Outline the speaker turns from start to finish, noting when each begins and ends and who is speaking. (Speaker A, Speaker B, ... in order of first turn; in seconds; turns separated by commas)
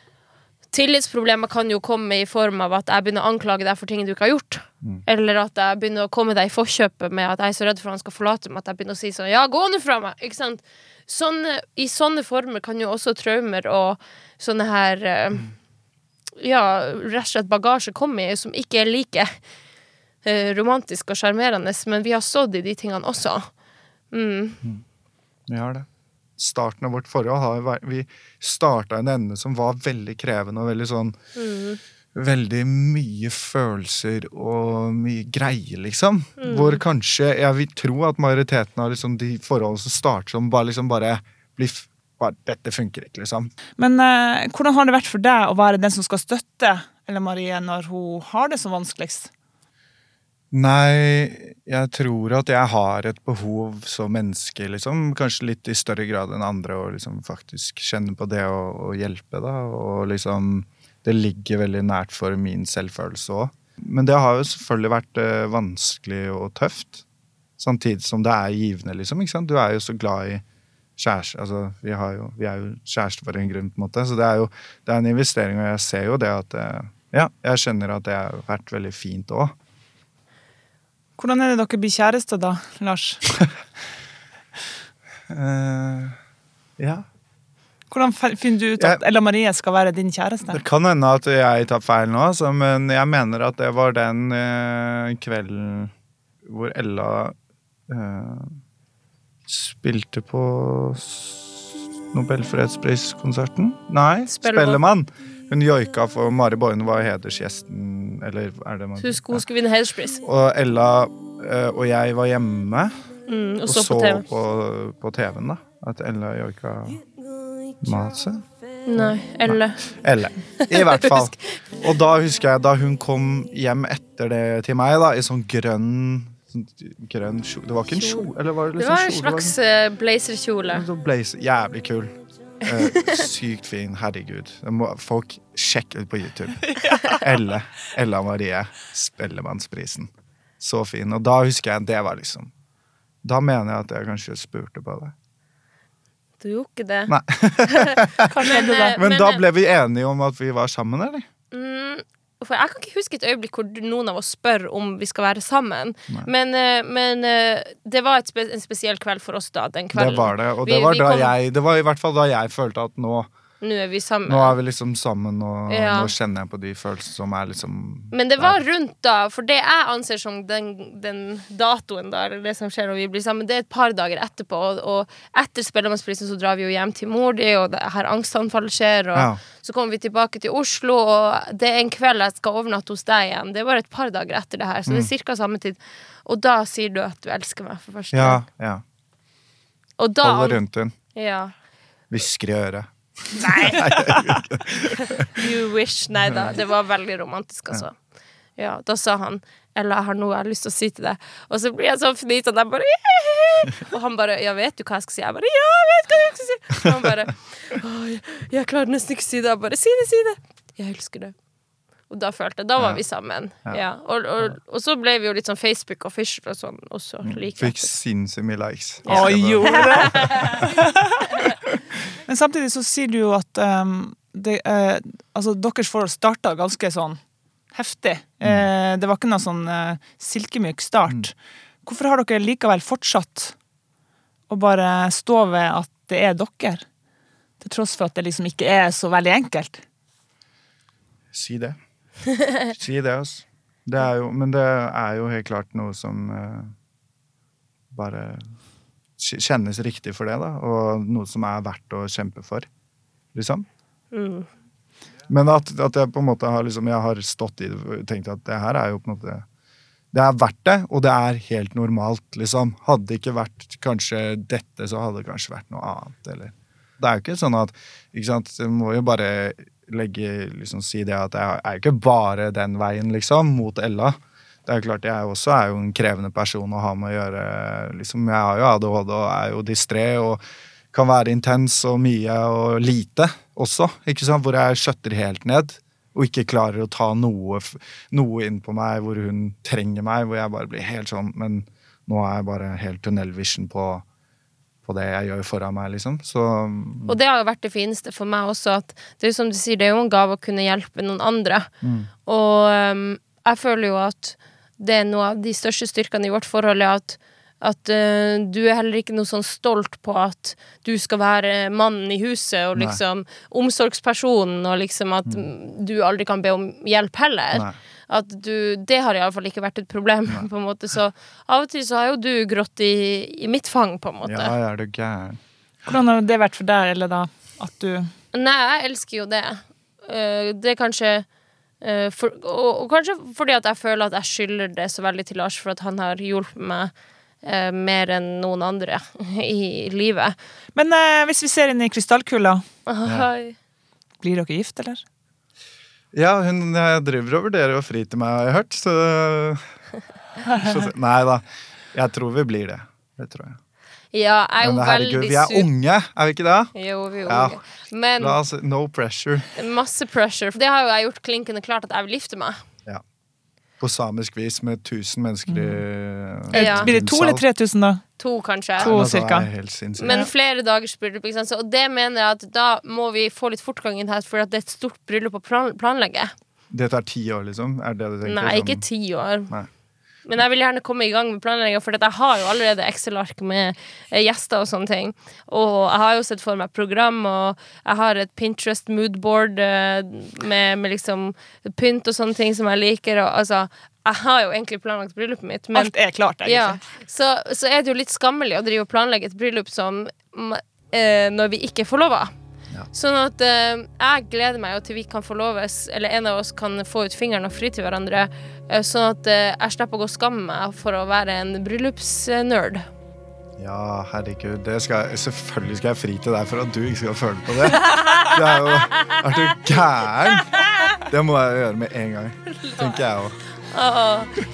Speaker A: 0.7-15.5, Speaker A: 16.4-19.4, Speaker A: 20.2-23.5, Speaker A: 24.1-24.6, Speaker B: 25.5-25.9, Speaker B: 26.4-31.2, Speaker A: 31.4-31.8, Speaker B: 32.1-43.5, Speaker A: 36.4-36.8, Speaker C: 43.8-49.3, Speaker B: 50.5-67.0, Speaker B: 67.6-70.4, Speaker B: 71.0-79.5, Speaker C: 81.2-83.3, Speaker B: 85.3-86.2, Speaker B: 86.8-87.0, Speaker C: 87.9-90.6, Speaker B: 90.5-95.9, Speaker B: 96.4-97.3, Speaker B: 97.9-98.6, Speaker B: 99.5-109.5, Speaker A: 104.3-104.8, Speaker A: 109.0-110.2, Speaker B: 110.2-112.9, Speaker A: 113.3-114.2, Speaker B: 113.7-117.0, Speaker B: 117.8-118.4, Speaker A: 118.9-119.8, Speaker B: 119.0-129.6, Speaker A: 120.6-121.4, Speaker A: 128.0-130.8, Speaker B: 130.7-140.1, Speaker A: 132.8-133.2, Speaker B: 140.6-142.5, Speaker B: 143.2-145.1, Speaker A: 146.4-149.4, Speaker B: 147.1-151.3, Speaker C: 148.2-149.0, Speaker A: 151.5-161.3, Speaker B: 159.9-163.3, Speaker A: 163.6-164.6, Speaker B: 164.3-168.6, Speaker A: 165.7-166.1, Speaker A: 168.1-188.4, Speaker B: 179.1-179.4, Speaker B: 188.1-188.8, Speaker A: 190.0-190.6, Speaker B: 190.2-190.9, Speaker A: 191.1-191.5, Speaker B: 192.1-195.3, Speaker A: 193.5-193.9, Speaker A: 195.0-198.0, Speaker B: 196.3-196.6, Speaker A: 198.6-211.3, Speaker A: 212.1-217.9, Speaker B: 217.2-220.7, Speaker A: 219.1-220.7, Speaker C: 219.1-221.4, Speaker C: 222.3-227.2, Speaker C: 227.7-233.6, Speaker B: 228.4-228.7, Speaker C: 234.5-236.8, Speaker C: 237.6-239.8, Speaker B: 241.3-241.8, Speaker B: 242.7-246.7, Speaker B: 247.9-248.5, Speaker B: 249.2-252.7, Speaker B: 253.3-253.7, Speaker A: 254.1-254.5, Speaker B: 255.3-259.4, Speaker B: 260.1-280.4, Speaker B: 280.9-294.1, Speaker B: 294.9-297.2, Speaker A: 297.1-301.7, Speaker B: 301.8-302.1, Speaker A: 302.3-324.5, Speaker B: 324.2-325.4, Speaker C: 325.9-328.1, Speaker A: 328.3-331.3, Speaker A: 331.8-336.9, Speaker A: 337.4-340.4, Speaker C: 340.8-342.6, Speaker A: 342.9-343.6, Speaker C: 344.2-345.0, Speaker B: 346.1-349.6, Speaker B: 350.6-351.4, Speaker B: 351.9-353.6, Speaker A: 354.1-355.7, Speaker B: 354.6-356.8, Speaker A: 356.8-358.4, Speaker B: 357.3-357.6, Speaker B: 358.2-359.5, Speaker A: 359.6-362.6, Speaker B: 363.8-367.4, Speaker C: 365.5-365.8, Speaker C: 366.5-368.0, Speaker A: 366.5-366.9, Speaker A: 368.2-368.9, Speaker B: 368.8-370.2, Speaker C: 368.8-369.5, Speaker A: 370.0-376.3, Speaker B: 376.7-378.9, Speaker A: 378.2-379.5, Speaker A: 380.3-402.3, Speaker C: 395.7-396.8, Speaker A: 402.9-412.9, Speaker B: 413.6-423.4, Speaker A: 417.7-419.2, Speaker A: 422.6-423.0, Speaker A: 423.7-424.3